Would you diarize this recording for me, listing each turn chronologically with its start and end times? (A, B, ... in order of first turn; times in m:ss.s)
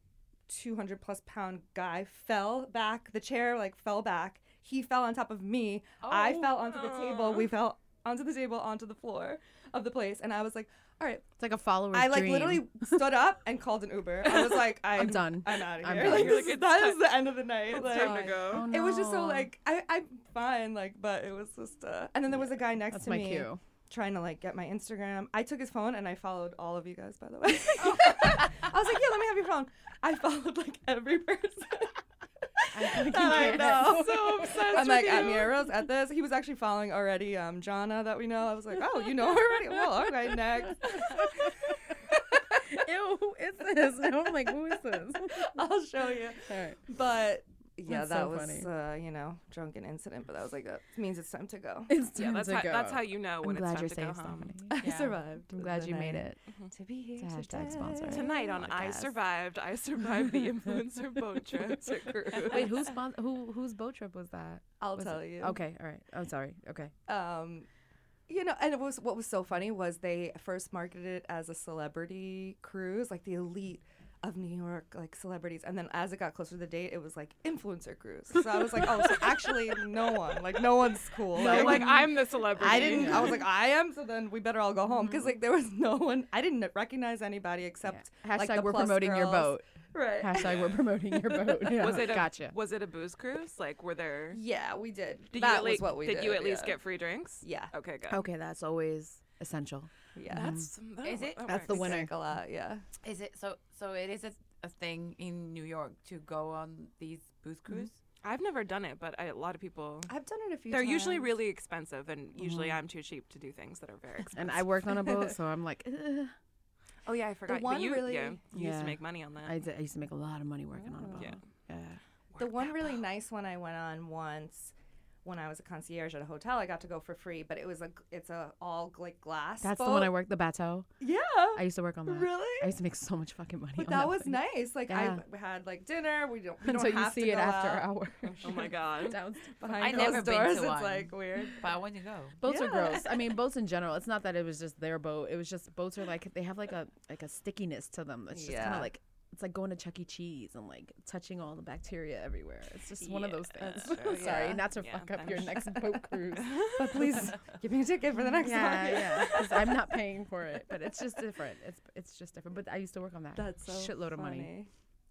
0:00.5-0:11.3 A
0:06.0-0:06.6 B
0:06.5-0:07.5 C
0:11.4-0:12.7 D
0:11.9-0:31.9 A
0:14.2-0:14.6 C
0:14.8-0:16.6 D
0:15.8-0:18.7 C
0:17.8-0:19.5 D
0:22.9-0:23.6 D
0:32.6-0:41.5 A
0:32.7-0:35.1 D
0:33.1-0:35.7 C
0:38.7-0:45.6 D
0:45.2-0:51.9 A
0:46.4-0:46.8 D
0:47.8-0:48.7 D
0:51.9-0:56.4 D
0:52.2-0:54.6 C
0:54.7-0:58.4 A
0:54.8-0:55.2 B
0:57.2-0:59.1 D
0:58.1-1:02.7 C
1:01.9-1:02.7 A
1:02.5-1:06.9 D
1:04.8-1:05.6 A
1:07.1-1:07.7 A
1:08.3-1:31.5 A
1:21.3-1:23.4 D
1:21.3-1:23.4 C
1:27.8-1:32.6 D
1:30.4-1:30.8 C
1:31.6-1:34.4 C
1:34.3-1:36.8 A
1:35.3-1:38.2 C
1:37.4-1:37.7 A
1:38.1-1:40.7 D
1:40.1-1:40.6 A
1:40.3-1:41.9 C
1:41.0-1:41.7 B
1:41.5-1:42.2 D
1:41.7-1:42.8 A
1:43.0-1:48.0 B
1:48.2-1:50.1 C
1:50.1-1:51.3 A
1:50.7-1:54.5 C
1:52.4-1:52.8 D
1:54.4-1:56.3 D
1:57.0-1:59.6 C
1:57.5-1:58.4 A
1:58.5-2:02.0 D
2:00.8-2:01.3 A
2:01.1-2:01.4 C
2:02.3-2:03.0 C
2:02.4-2:04.7 A
2:05.2-2:10.1 A
2:09.6-2:10.9 D
2:11.0-2:12.7 A
2:11.5-2:15.2 D
2:13.8-2:21.7 A
2:16.6-2:20.3 D
2:18.4-2:19.2 C
2:19.8-2:22.4 B
2:22.4-2:37.3 D
2:22.4-2:23.1 A
2:28.3-2:28.9 A
2:33.0-2:35.5 C
2:33.8-2:39.7 A
2:36.4-2:37.0 C
2:38.4-2:44.5 D
2:43.4-2:44.7 A